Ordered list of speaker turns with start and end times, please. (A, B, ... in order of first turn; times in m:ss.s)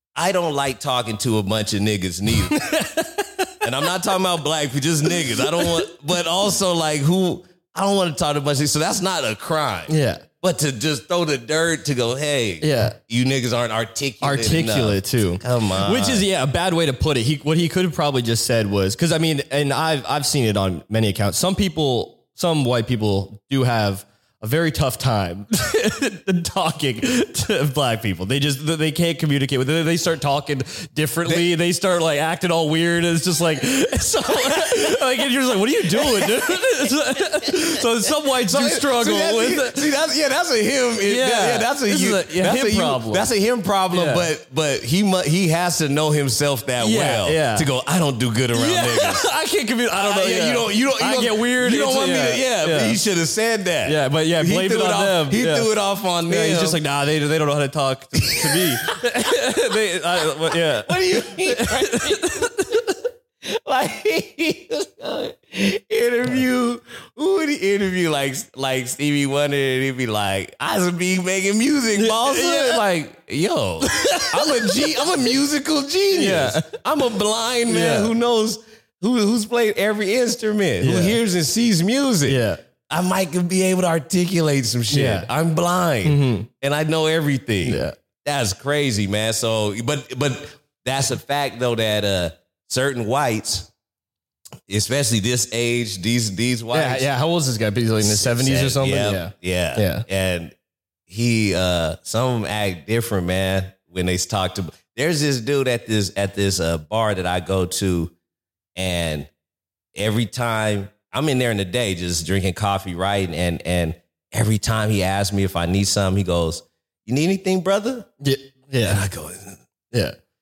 0:00.2-0:02.7 A
0:02.5-0:03.5 B
0:03.6-0:16.3 A
0:09.9-0:10.2 B
0:12.6-0:13.0 B
0:14.2-0:39.9 B
0:31.2-0:31.5 A
0:35.8-0:36.7 A
0:38.4-0:49.2 A
0:41.0-0:43.3 B
0:43.9-0:44.3 B
0:46.8-0:47.7 B
0:48.5-0:53.0 B
0:49.9-0:56.8 A
0:53.8-0:55.7 B
0:56.2-1:02.8 B
0:58.3-0:58.7 A
1:00.5-1:02.5 A
1:03.4-1:33.7 A
1:11.9-1:12.8 B
1:13.8-1:15.1 B
1:16.1-1:16.8 B
1:17.7-1:18.1 B
1:20.8-1:21.2 B
1:22.2-1:22.6 B
1:24.9-1:25.3 B
1:26.0-1:26.5 B
1:27.6-1:28.0 B
1:34.7-1:37.1 A
1:36.7-1:40.0 B
1:38.0-1:40.5 A
1:41.1-1:48.1 A
1:48.8-1:49.3 A
1:49.9-1:58.1 A
1:58.2-1:59.0 B
1:58.8-1:59.6 A